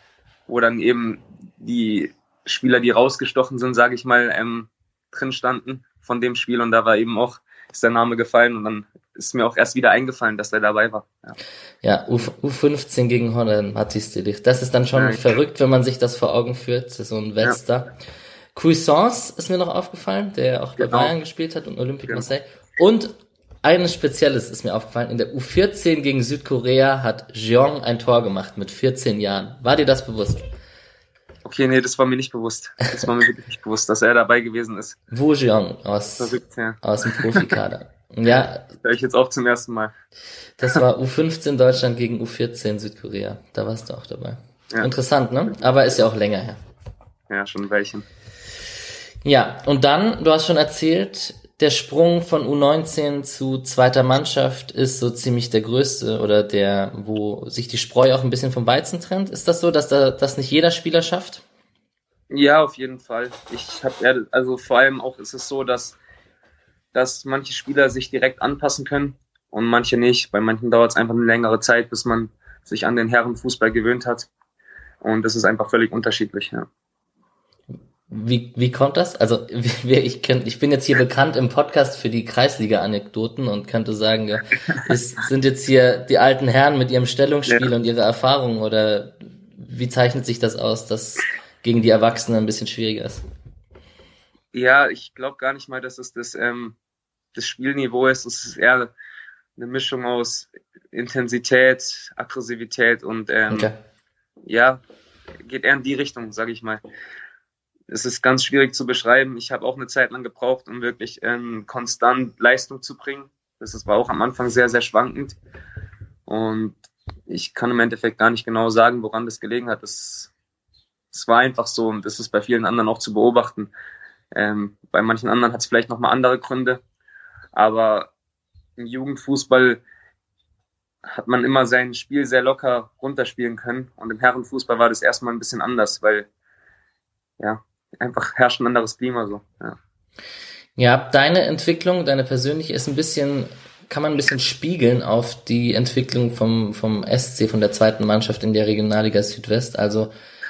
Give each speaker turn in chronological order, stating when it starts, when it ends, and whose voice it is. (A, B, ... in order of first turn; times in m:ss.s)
0:00.5-0:11.4 A
0:11.8-0:17.9 B
0:14.9-0:15.2 A
0:18.5-0:30.4 B
0:20.8-0:21.1 A
0:31.4-0:35.0 A
0:35.1-0:38.7 B
0:36.2-0:37.5 A
0:38.8-0:39.9 A
0:40.6-0:46.6 B
0:47.3-0:48.0 A
0:49.2-1:01.4 B
1:02.3-1:06.0 A
1:06.9-1:14.3 A
1:15.0-1:16.7 A
1:18.1-1:33.2 B
1:34.5-1:36.7 A
1:37.3-1:38.9 A
1:39.6-1:43.7 A
1:43.5-1:43.8 B
1:44.4-1:44.8 A
1:45.4-1:46.8 A
1:47.9-1:55.4 A
1:56.3-1:56.7 A
1:57.3-2:00.3 A
2:01.1-2:03.7 A
2:04.3-2:06.8 A
2:07.5-2:08.1 A
2:08.8-2:09.8 A
2:11.0-2:16.3 A
2:17.4-2:19.8 A
2:20.8-2:30.1 B